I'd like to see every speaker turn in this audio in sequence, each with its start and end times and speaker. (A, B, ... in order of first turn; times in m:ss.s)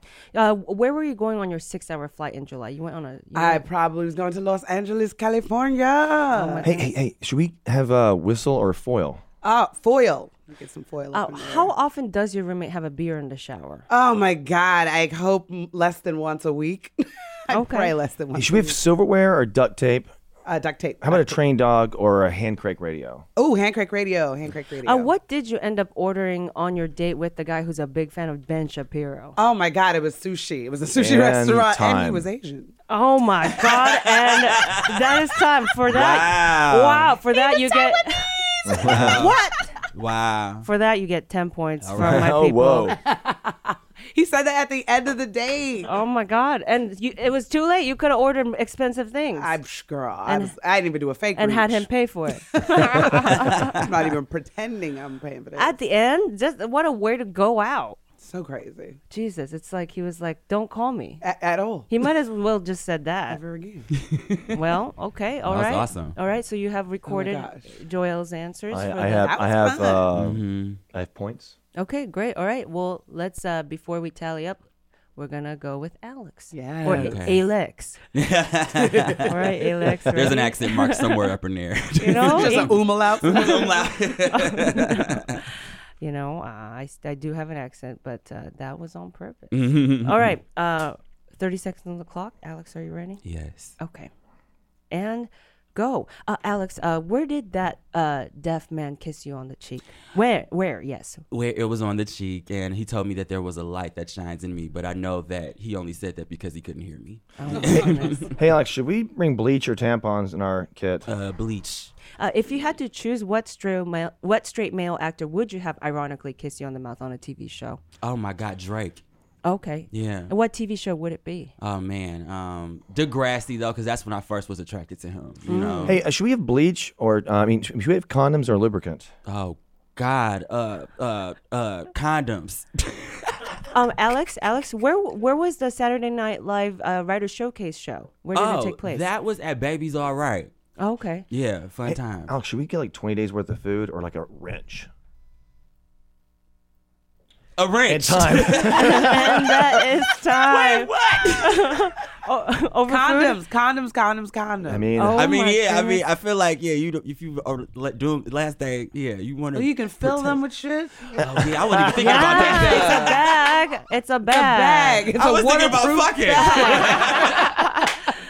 0:00.3-0:03.6 A
0:03.3-0:06.8 B
0:06.3-0:06.9 A
0:06.6-0:09.2 C
0:09.4-0:11.7 B
0:11.1-0:13.8 A
0:13.9-0:18.8 B
0:17.5-0:17.9 A
0:18.3-0:20.1 C
0:20.4-0:21.4 B
0:21.0-0:23.2 C
0:23.4-0:25.1 B
0:24.8-0:29.4 A
0:29.4-0:32.7 B
0:30.9-0:32.3 C
0:32.9-0:38.4 A
0:33.6-0:35.0 D
0:35.9-0:37.1 D
0:37.3-0:39.7 B
0:38.6-0:39.2 C
0:38.8-0:39.4 D
0:39.9-0:40.7 D
0:40.6-0:42.9 A
0:41.8-0:42.3 D
0:42.0-0:43.0 C
0:43.0-0:45.9 B
0:45.8-0:49.6 A
0:49.4-0:51.9 B
0:50.3-0:50.5 A
0:51.3-0:53.9 A
0:52.5-0:55.8 B
0:55.6-0:58.0 A
0:58.2-0:59.0 B
0:59.1-1:01.2 A
1:01.2-1:01.9 B
1:01.9-1:03.4 A
1:03.3-1:03.9 B
1:04.0-1:04.5 D
1:04.5-1:09.4 A
1:05.4-1:06.2 D
1:07.0-1:07.7 B
1:08.7-1:11.6 C
1:09.2-1:10.0 B
1:10.1-1:10.8 D
1:11.8-1:14.6 A
1:15.2-1:18.0 A
1:16.5-1:17.2 B
1:16.9-1:17.4 D
1:18.1-1:19.3 D
1:18.8-1:19.3 B
1:19.2-1:21.3 A
1:20.1-1:25.4 D
1:22.0-1:25.4 A
1:22.2-1:23.9 B
1:26.0-1:33.2 A
1:29.5-1:30.3 D
1:33.2-1:33.8 D
1:33.8-1:34.1 A
1:34.9-1:41.2 A
1:41.3-1:48.3 D
1:47.4-1:48.3 A
1:47.5-1:48.3 B
1:47.7-1:51.0 C
1:51.1-1:51.9 D
1:52.2-1:57.8 A
1:58.0-1:59.0 D
1:59.4-2:01.5 A
1:59.9-2:00.3 D
2:01.6-2:06.0 D
2:05.4-2:06.0 A
2:05.8-2:09.1 C
2:09.2-2:12.9 D
2:13.7-2:19.0 A
2:18.3-2:20.5 D
2:20.8-2:21.2 A
2:21.3-2:22.3 D
2:21.8-2:24.9 C
2:27.6-2:29.2 D
2:27.9-2:29.6 C
2:28.7-2:33.4 A
2:30.4-2:31.7 D
2:32.9-2:34.9 B
2:34.6-2:35.3 C
2:35.0-2:36.0 A
2:35.2-2:40.4 D
2:39.5-2:43.2 B
2:41.2-2:43.2 D
2:42.0-2:45.1 A
2:44.3-2:47.7 B
2:45.2-2:47.5 D
2:46.3-2:47.9 A